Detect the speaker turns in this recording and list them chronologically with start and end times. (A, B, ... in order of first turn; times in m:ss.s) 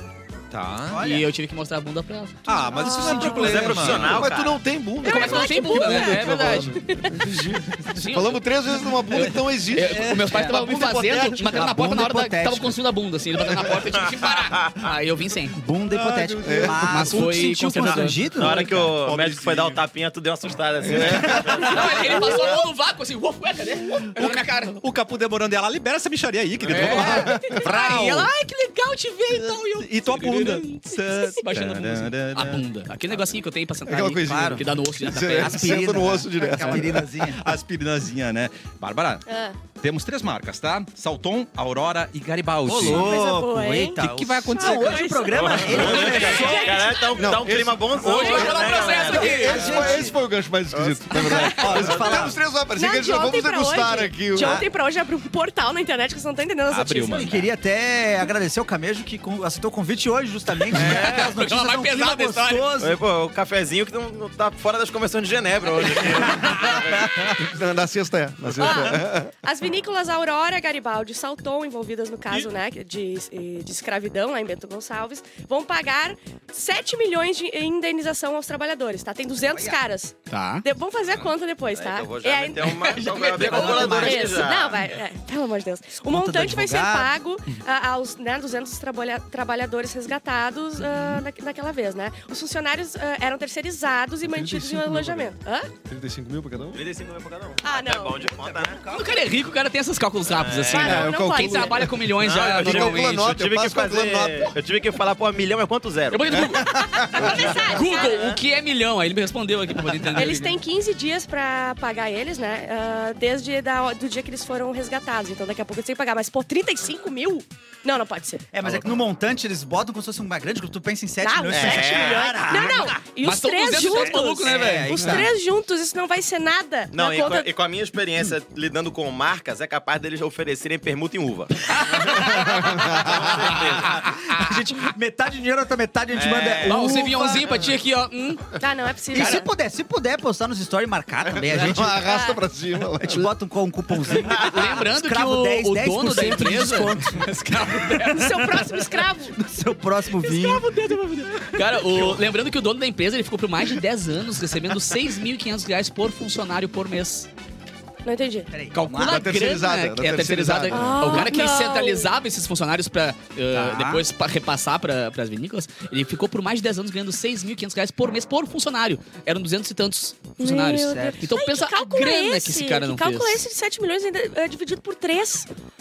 0:00.5-0:01.1 A
0:00.9-0:01.3 B
0:01.0-0:03.4 C
0:02.4-0:04.3 A
0:02.7-0:03.6 D
0:03.2-0:04.6 E
0:03.4-0:11.3 F
0:05.0-0:07.3 D
0:05.0-0:06.9 C
0:07.8-0:15.6 C
0:10.0-0:12.8 B
0:14.3-0:14.7 E
0:15.5-0:18.7 B
0:15.9-0:16.9 A
0:16.4-0:17.2 F
0:16.8-0:18.4 C
0:18.3-0:22.3 E
0:18.4-0:19.8 A
0:20.8-0:21.5 F
0:21.1-0:21.5 B
0:21.4-0:24.8 C
0:24.1-0:28.3 A
0:26.7-0:35.9 C
0:27.1-0:27.4 F
0:29.5-0:32.6 A
0:33.9-0:37.1 F
0:34.1-0:34.6 B
0:35.3-0:37.5 B
0:37.3-0:43.2 A
0:39.3-0:39.6 D
0:42.6-0:46.9 B
0:42.8-0:47.3 D
0:44.0-0:45.2 A
0:45.3-0:49.8 E
0:45.7-0:46.4 A
0:47.2-0:54.6 F
0:48.0-0:49.9 C
0:48.0-0:49.8 D
0:49.1-0:50.1 B
0:50.7-0:51.0 E
0:51.1-0:52.4 B
0:51.2-0:51.7 C
0:51.6-0:52.3 E
0:52.7-0:57.2 D
0:54.4-0:54.6 B
0:56.7-0:57.5 A
0:57.0-1:03.0 B
1:00.7-1:02.7 C
1:02.8-1:07.3 E
1:06.3-1:06.7 B
1:07.0-1:09.3 F
1:08.6-1:22.7 D
1:19.5-1:19.8 B
1:20.3-1:20.6 C
1:21.7-1:24.8 E
1:22.6-1:24.2 C
1:23.4-1:24.4 B
1:23.6-1:35.7 D
1:26.1-1:27.1 B
1:34.2-1:35.3 F
1:35.8-1:36.8 F
1:36.7-1:38.9 E
1:37.6-1:38.3 D
1:38.9-1:43.3 C
1:40.3-1:41.1 E
1:40.6-1:41.9 D
1:40.8-1:44.6 F
1:42.2-1:46.5 E
1:46.1-1:50.6 C
1:46.7-1:48.4 D
1:47.2-1:48.4 E
1:50.1-1:58.4 D
1:58.5-2:03.0 B
2:01.2-2:07.5 D
2:01.5-2:02.4 E
2:03.2-2:05.2 C
2:03.8-2:05.3 B
2:06.9-2:14.0 E
2:11.9-2:12.6 C
2:12.5-2:13.0 F
2:13.3-2:14.5 C
2:13.3-2:17.5 B
2:16.1-2:16.8 E
2:16.7-2:18.6 C
2:18.6-2:19.5 D
2:19.1-2:22.1 B
2:19.1-2:19.4 C
2:21.3-2:23.3 F
2:21.9-2:22.4 D
2:23.0-2:27.4 B
2:24.4-2:28.4 C
2:27.9-2:29.4 D
2:28.5-2:30.7 B
2:30.3-2:31.3 D
2:30.7-2:37.3 C
2:38.0-2:38.5 D
2:38.5-2:39.3 B
2:38.7-2:53.4 C
2:39.0-2:41.2 F
2:40.7-2:42.1 D
2:43.5-2:44.0 B
2:50.4-2:55.5 D
2:50.7-2:51.4 B